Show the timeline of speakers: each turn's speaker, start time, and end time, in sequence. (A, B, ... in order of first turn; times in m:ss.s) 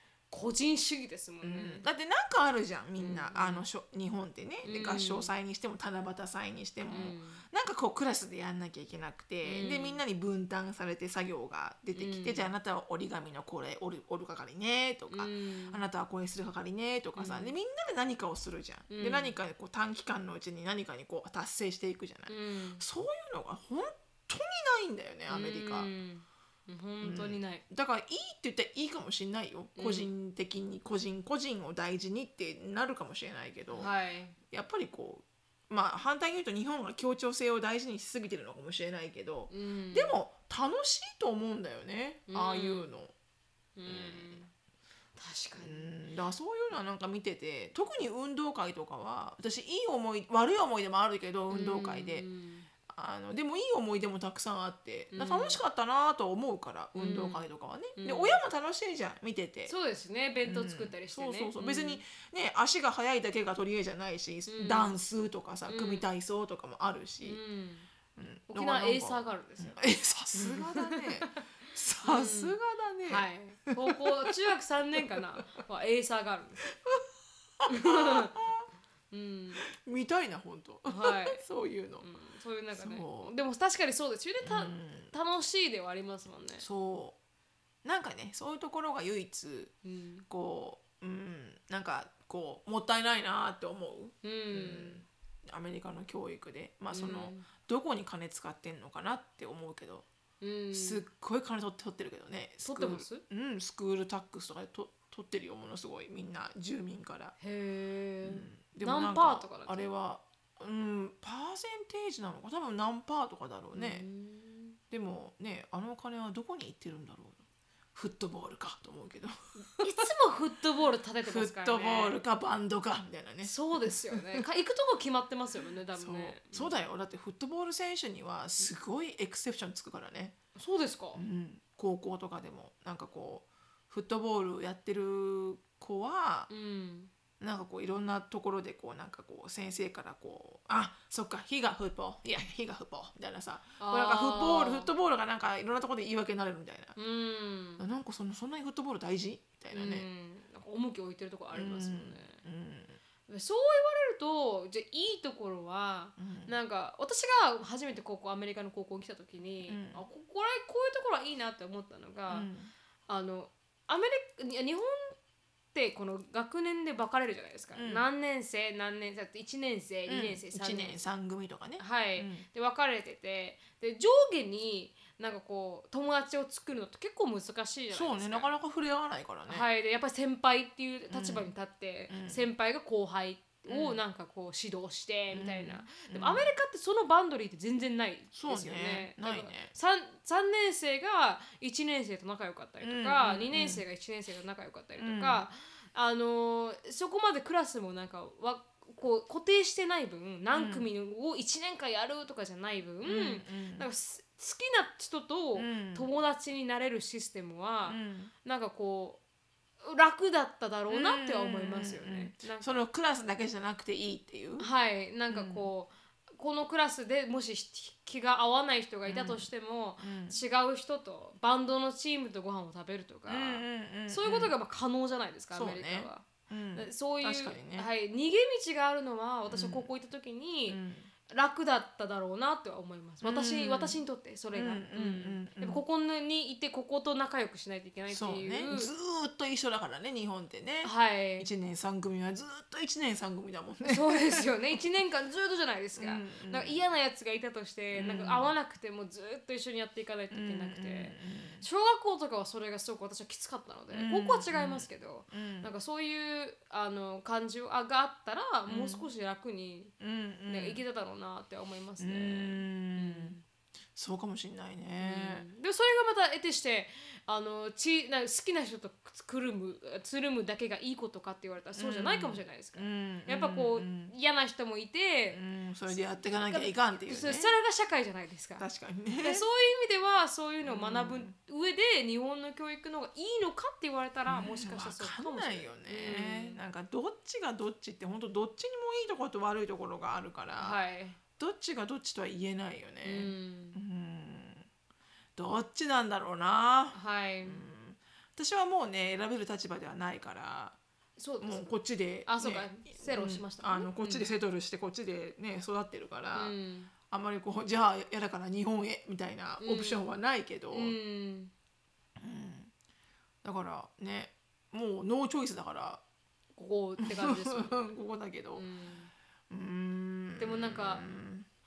0:00.3-0:01.9 A
0:01.4-0:25.9 B
0:03.0-0:03.7 A
0:04.6-0:05.3 A
0:06.9-0:07.4 A
0:09.4-0:10.0 A
0:12.0-0:12.5 A
0:15.1-0:15.8 A
0:17.2-0:17.6 A
0:18.9-0:19.4 A
0:22.3-0:22.8 A
0:25.3-0:27.6 A
0:27.0-0:33.9 B
0:29.8-0:30.1 A
0:33.7-0:34.4 A
0:34.5-0:43.1 B
0:39.5-0:40.2 A
0:42.3-0:42.9 A
0:43.8-0:44.5 A
0:43.9-0:44.4 B
0:45.2-0:45.9 A
0:45.6-0:52.3 B
0:51.5-0:52.7 A
0:52.9-0:59.7 B
0:55.1-0:55.6 A
0:57.0-0:58.4 A
0:59.7-1:02.0 A
1:00.4-1:07.4 B
1:04.5-1:05.0 A
1:05.7-1:06.1 A
1:07.2-1:07.9 A
1:08.2-1:14.3 B
1:08.5-1:09.8 A
1:10.3-1:11.4 A
1:12.0-1:12.6 A
1:13.1-1:16.6 A
1:16.7-1:17.0 B
1:17.6-1:18.6 B
1:17.7-1:18.4 A
1:19.1-1:19.6 A
1:19.6-1:22.1 B
1:20.9-1:21.4 A
1:22.0-1:26.6 A
1:22.7-1:23.3 B
1:24.4-1:25.1 B
1:26.6-1:27.2 B
1:27.8-1:29.7 B
1:29.8-1:30.3 A
1:30.3-1:40.0 B
1:34.2-1:35.0 A
1:36.9-1:37.5 A
1:40.4-1:41.0 A
1:40.7-1:47.3 B
1:42.6-1:43.2 A
1:47.4-1:49.9 A
1:48.2-1:54.1 B
1:53.7-1:54.8 A
1:54.9-1:57.4 B
1:58.0-2:00.1 B
1:59.8-2:02.2 A
2:01.2-2:04.4 B
2:03.4-2:06.8 A
2:06.0-2:10.4 B
2:10.6-2:11.2 A
2:11.2-2:16.5 B
2:16.5-2:17.1 A
2:17.4-2:27.0 B
2:23.8-2:24.9 A
2:27.0-2:27.8 A
2:27.8-2:30.1 B
2:29.7-2:32.4 A
2:31.5-2:33.0 B
2:33.3-2:42.5 A
2:36.2-2:36.5 B
2:39.7-2:40.0 B
2:42.3-2:42.7 B
2:43.1-2:45.2 A
2:45.7-2:51.0 A
2:47.8-2:48.1 B
2:50.1-2:52.4 B
2:51.8-2:58.5 A
2:57.9-2:59.7 B
2:59.5-3:29.2 A
3:01.1-3:01.5 B
3:02.1-3:02.4 B
3:03.7-3:04.0 B
3:05.3-3:06.5 B
3:08.3-3:09.7 B
3:12.8-3:13.8 B
3:15.0-3:15.5 B
3:20.5-3:20.9 B
3:23.0-3:23.9 B
3:25.6-3:26.1 B
3:27.9-3:28.3 B
3:29.8-3:32.8 A
3:30.9-3:34.7 B
3:34.6-3:58.9 A
3:35.3-3:35.7 B
3:39.1-3:39.5 B
3:40.0-3:40.4 B
3:43.3-3:44.5 B
3:45.5-3:47.9 B
3:49.5-3:49.9 B
3:50.7-3:51.1 B
3:53.2-3:54.0 B
3:54.5-3:55.8 B
3:58.1-4:04.5 B
4:00.8-4:01.5 A
4:03.8-4:20.0 A
4:06.0-4:06.8 B
4:07.9-4:08.5 B
4:10.3-4:11.7 B
4:13.9-4:15.7 B
4:18.7-4:19.1 B
4:20.0-4:20.8 B
4:20.5-4:23.4 A
4:22.0-4:23.4 B
4:24.0-4:25.5 B
4:25.0-4:38.7 A
4:31.8-4:34.1 B
4:35.3-4:37.5 B
4:38.6-4:39.5 B
4:39.2-4:46.6 A
4:40.6-4:41.3 B
4:44.3-4:50.8 B
4:50.6-4:51.2 A
4:51.4-4:54.7 B
4:53.0-4:53.8 A
4:55.4-5:00.8 B
4:56.9-4:57.6 A
5:01.2-5:01.7 A
5:01.4-5:06.6 B
5:02.3-5:04.3 A
5:06.4-5:06.9 A
5:07.1-5:11.0 B
5:09.6-5:10.1 A
5:10.7-5:11.5 A
5:12.2-5:12.7 B
5:13.4-5:16.0 B
5:16.6-5:17.9 A
5:17.0-5:18.6 B
5:18.6-5:19.1 A
5:19.5-5:21.5 B
5:20.4-5:21.1 A